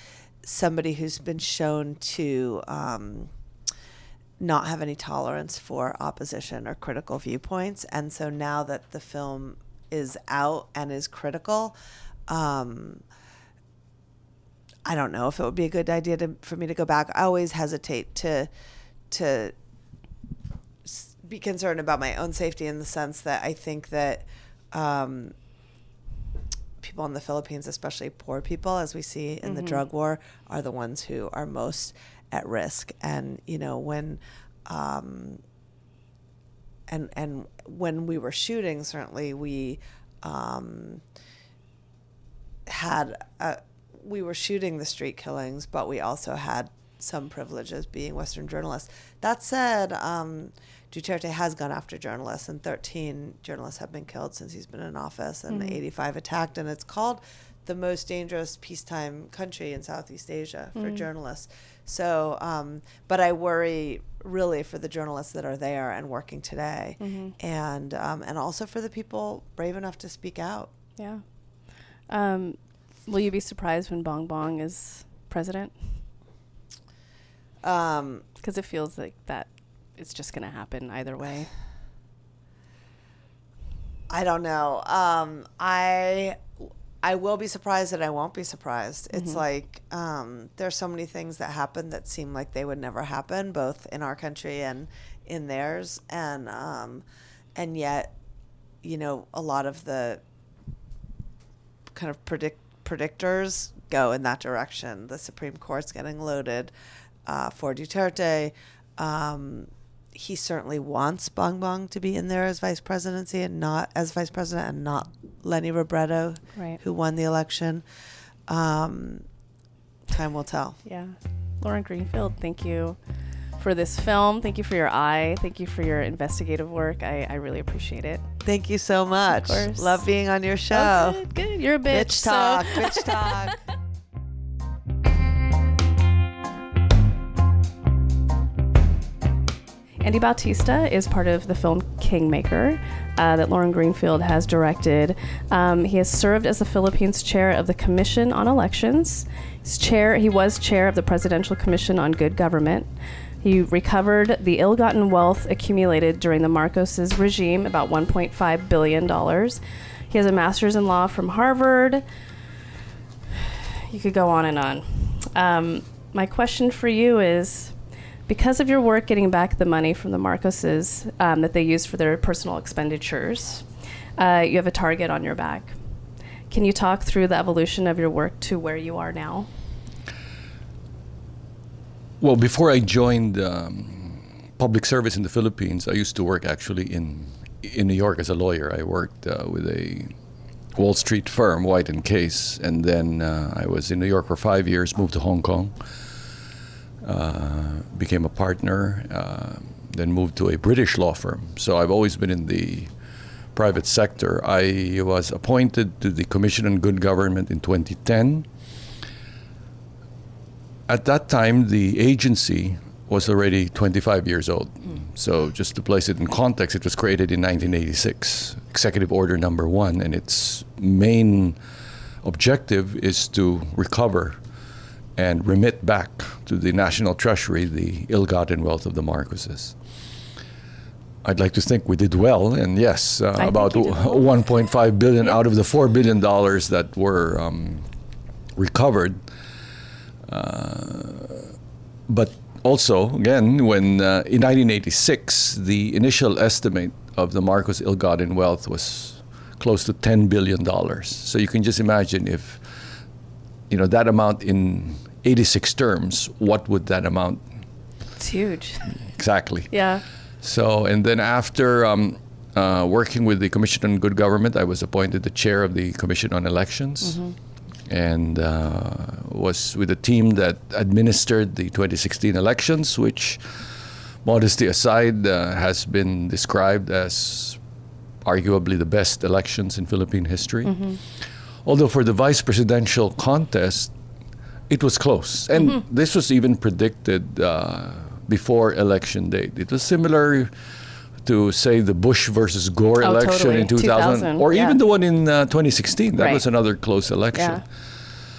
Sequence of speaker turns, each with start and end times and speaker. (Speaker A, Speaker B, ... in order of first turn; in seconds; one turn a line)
Speaker A: 0.4-3.3
Speaker A: 4.4-11.8
Speaker A: 12.3-13.0
Speaker A: 14.8-18.5
Speaker A: 19.1-19.5
Speaker A: 20.8-25.3
Speaker A: 26.8-35.4
Speaker B: 29.4-29.8
Speaker A: 36.9-41.0
Speaker A: 42.7-70.7
Speaker B: 55.5-55.8
Speaker B: 60.7-61.0
Speaker B: 67.0-67.3
Speaker B: 71.0-76.0
Speaker A: 77.6-78.2
Speaker B: 78.4-81.5
Speaker A: 84.1-86.4
Speaker A: 87.0-97.0
Speaker B: 89.1-89.4
Speaker A: 97.5-98.1
Speaker A: 98.8-100.2
Speaker A: 101.9-106.7
Speaker A: 107.2-117.8
Speaker A: 118.5-119.2
Speaker A: 120.1-120.8
Speaker B: 120.8-123.0
Speaker B: 123.6-128.2
Speaker A: 128.4-131.2
Speaker B: 129.3-130.0
Speaker B: 130.7-133.5
Speaker A: 131.9-133.6
Speaker B: 140.0-152.9
Speaker B: 153.4-162.0
Speaker B: 163.4-167.8
Speaker B: 168.3-173.6
Speaker B: 174.2-175.8
Speaker B: 176.5-179.5
Speaker C: 182.2-190.1
Speaker C: 190.7-195.8
Speaker C: 197.0-202.9
Speaker C: 203.5-208.5
Speaker C: 210.9-221.6
Speaker C: 222.2-224.4
Speaker C: 225.2-229.8
Speaker C: 231.2-237.8
Speaker B: 233.4-234.3
Speaker C: 238.6-239.2
Speaker C: 240.3-241.5
Speaker C: 242.1-252.6
Speaker C: 253.7-257.4
Speaker B: 258.2-259.0
Speaker C: 258.9-259.9
Speaker B: 259.7-260.0
Speaker C: 260.4-267.3
Speaker B: 267.0-267.4
Speaker C: 267.9-273.6
Speaker C: 274.2-277.6
Speaker C: 278.2-280.9
Speaker B: 280.6-281.0
Speaker C: 281.6-283.9
Speaker C: 284.7-290.5
Speaker C: 291.2-297.7
Speaker B: 293.0-294.8
Speaker B: 296.2-296.4
Speaker B: 297.3-297.6